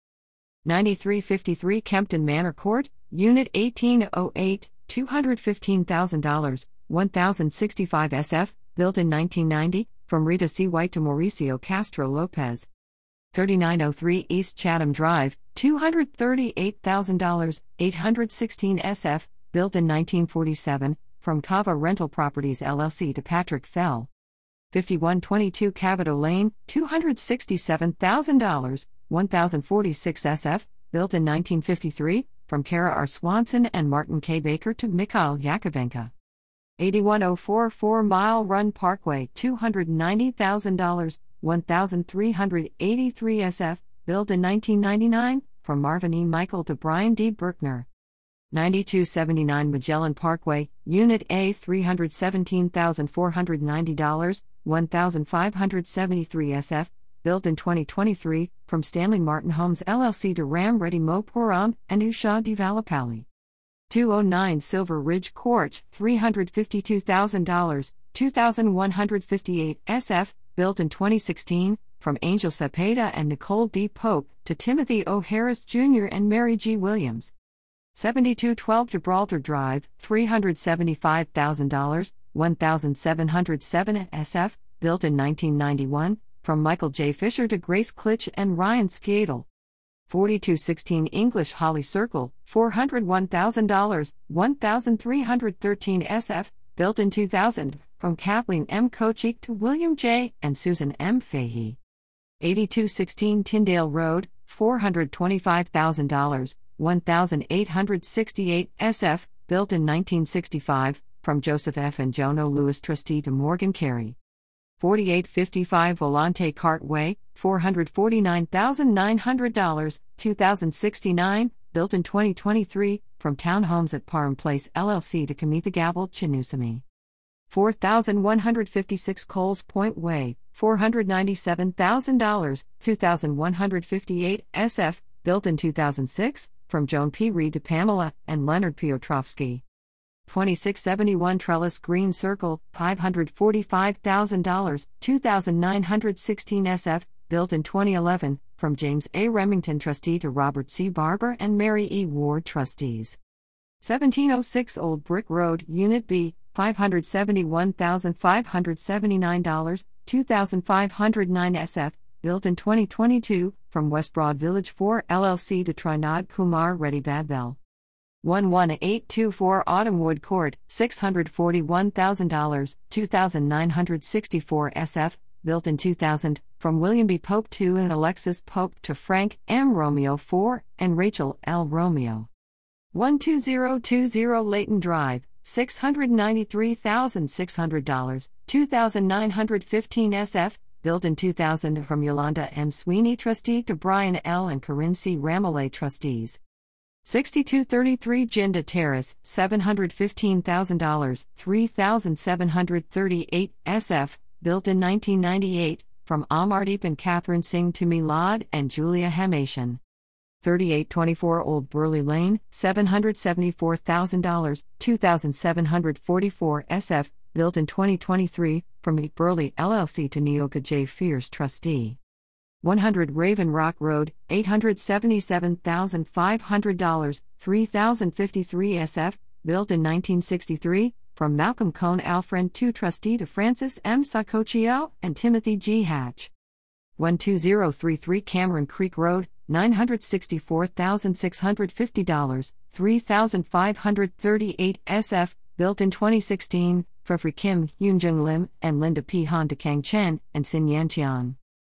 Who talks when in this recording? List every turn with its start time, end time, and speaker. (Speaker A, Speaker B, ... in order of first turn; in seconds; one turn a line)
Speaker A: 0.7-12.7
Speaker A: 13.3-24.1
Speaker A: 24.7-36.1
Speaker A: 36.8-47.9
Speaker A: 48.5-63.3
Speaker A: 63.9-77.3
Speaker A: 77.9-89.5
Speaker A: 90.1-101.8
Speaker A: 102.4-114.2
Speaker A: 114.8-126.8
Speaker A: 127.5-139.6
Speaker A: 140.3-153.2
Speaker A: 153.8-167.6
Speaker A: 168.2-182.3
Speaker A: 182.9-196.4
Speaker A: 197.0-209.8
Speaker A: 210.4-222.0
Speaker A: 222.6-236.3
Speaker A: 237.0-251.4